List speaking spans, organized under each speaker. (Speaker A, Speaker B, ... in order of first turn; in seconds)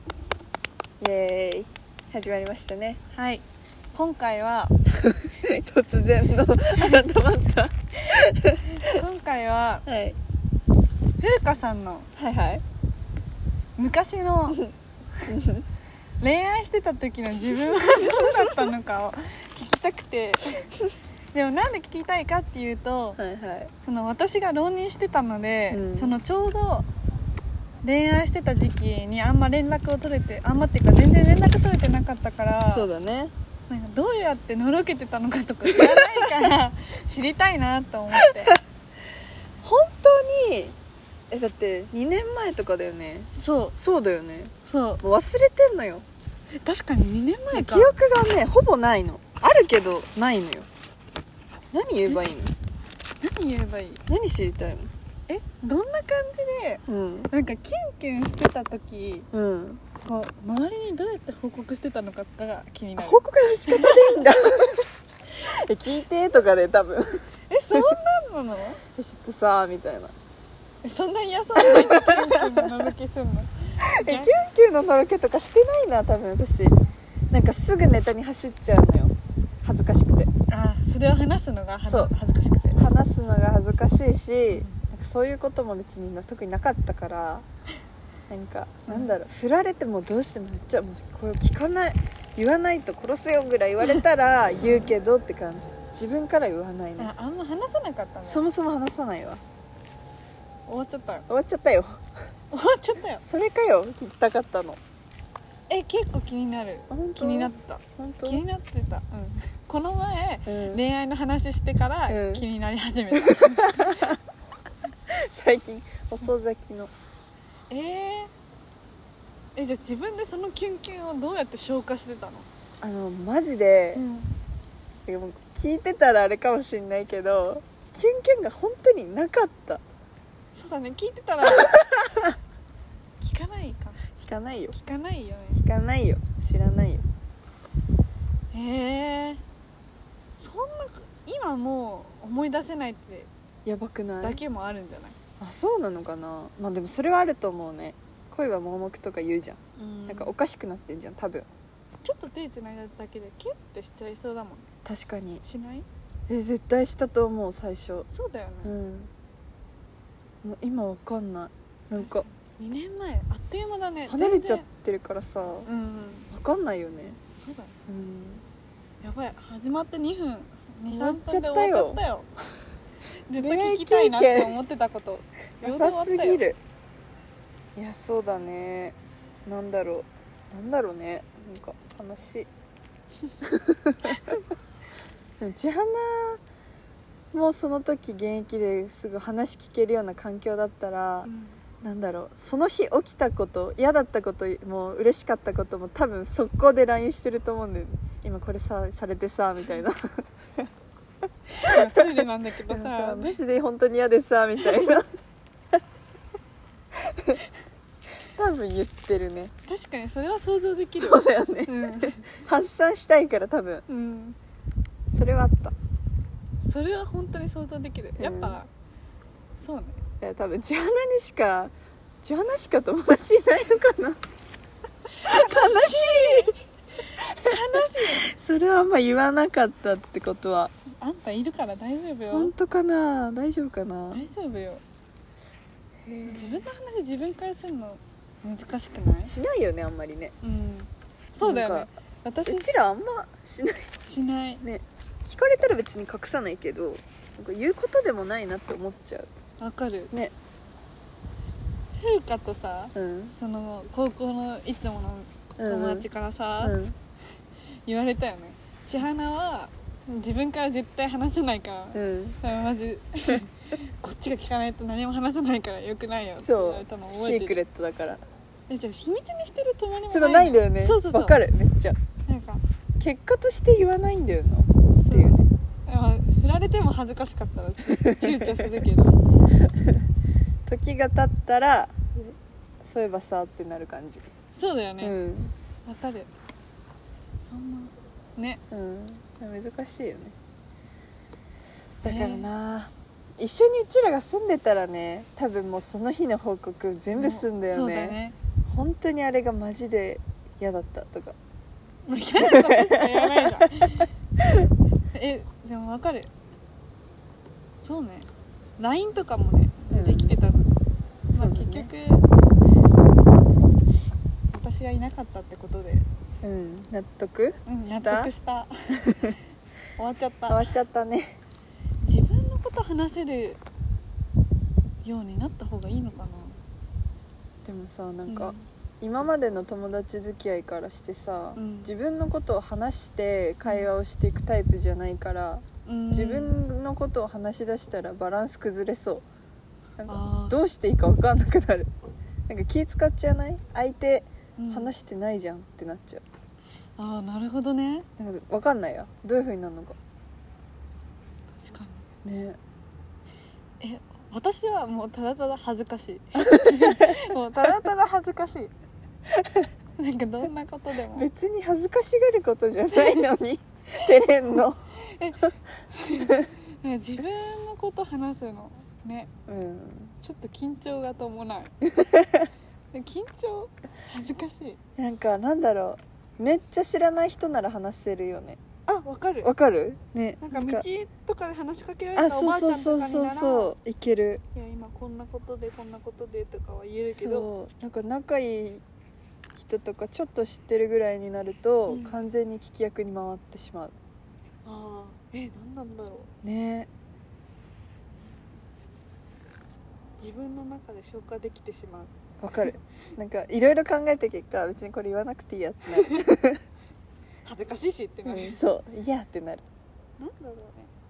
Speaker A: 1.0-3.0, 5.1-8.9, 9.9-10.2, 12.2-12.6, 15.3-15.7, 23.2-23.7, 25.7-26.2, 32.6-33.3, 35.7-36.5, 38.1-38.5, 39.6-40.8, 41.3-46.0, 47.5-50.7, 51.7-52.5, 54.1-54.9, 56.9-57.3, 59.3-59.8, 63.0-64.9, 65.4-67.1, 69.0-70.1, 71.6-72.7, 73.8-76.8, 77.3-80.3, 81.8-82.1, 82.8-87.5, 88.3-97.1, 98.2-99.4, 101.3-102.0, 103.2-104.8, 106.9-108.5, 110.5-110.8, 112.1-112.5, 113.1-114.2, 115.3-116.9, 122.8-124.0, 125.1-129.8, 131.6-132.3, 134.2-134.8, 135.5-137.1, 143.7-144.4, 145.4-151.5, 154.8-155.4, 156.3-158.1, 158.6-159.1, 160.4-162.2, 164.1-165.7, 166.3-167.2, 167.9-168.4, 170.9-172.0, 173.3-174.6, 175.6-176.6, 177.8-182.5, 183.4-184.3, 185.4-186.4, 187.3-191.3, 191.8-200.7, 201.7-202.1, 202.7-205.0, 207.1-207.4, 208.3-209.5, 211.0-213.8, 215.1-215.8, 218.2-218.6, 220.2-221.7, 222.2-224.2, 225.2-226.6, 227.2-230.7, 232.3-234.2, 236.1-236.7, 239.2-240.3, 241.4-241.9, 242.4-243.9, 244.6-249.3, 252.9-253.4, 255.6-256.1, 256.6-256.9, 261.9-262.4, 266.4-268.2, 270.1-272.0, 273.0-275.5, 277.9-278.8, 280.7-284.2, 285.0-285.5, 288.7-290.4, 292.0-301.4, 302.4-303.9, 309.9-310.4, 311.3-311.9, 316.4-318.3, 319.1-319.4, 320.5-321.4, 327.6-339.2, 340.0-341.9, 342.5-346.2, 348.2-350.0, 352.2-352.6, 356.4-357.2, 359.4-359.7, 361.1-364.8, 366.2-366.5, 369.5-370.1, 371.8-372.5, 375.0-378.6, 379.4-380.9, 382.1-384.4, 387.1-388.8, 389.6-393.9, 396.4-396.9, 402.4-406.6, 408.2-409.6
Speaker B: 3.1-4.7, 8.7-9.8, 11.2-12.1, 13.8-14.6, 16.2-20.7, 21.3-23.2, 23.8-26.9, 27.8-32.9, 33.7-38.5, 43.3-43.8, 44.6-45.0, 46.6-48.0, 53.2-54.0, 55.3-59.3, 60.0-64.5, 67.5-68.8, 70.8-74.4, 80.5-82.9, 84.5-84.8, 88.9-89.1, 94.6-94.9, 97.0-98.5, 100.7-101.2, 102.5-103.2, 105.7-114.2, 117.7-118.3, 119.6-122.5, 124.0-124.3, 130.6-131.8, 133.2-134.0, 134.7-135.6, 138.5-139.4, 140.3-143.3, 144.2-145.2, 149.8-150.3, 152.0-154.7, 155.4-155.8, 158.1-158.7, 162.0-164.7, 165.7-166.3, 167.3-167.8, 169.0-172.3, 173.3-176.4, 184.1-184.4, 191.2-191.6, 201.6-203.3, 209.7-212.2, 213.9-214.4, 216.6-218.7, 219.6-220.0, 225.2-228.3, 231.0-232.5, 234.1-234.8, 236.2-239.3, 240.4-242.7, 244.1-244.6, 249.6-250.1, 252.0-256.8, 257.9-267.6, 268.7-271.4, 272.3-272.6, 274.9-279.2, 284.6-285.2, 285.9-286.3, 287.5-288.6, 292.0-292.5, 297.2-298.4, 302.1-304.1, 305.1-306.3, 307.8-310.7, 311.3-312.3, 313.2-313.6, 314.5-316.1, 317.7-319.0, 320.0-320.7, 322.0-323.6, 325.1-326.6, 328.3-328.6, 331.6-331.9, 335.9-336.6, 340.1-340.6, 344.6-344.9, 347.0-348.1, 351.6-352.1, 353.8-358.7, 360.0-361.3, 362.9-363.2, 365.0-369.3, 370.2-371.7, 372.9-374.8, 378.9-379.5, 380.4-383.7, 384.5-387.5, 391.9-392.2, 394.6-396.3, 400.2-402.1, 407.4-408.6, 410.2-410.9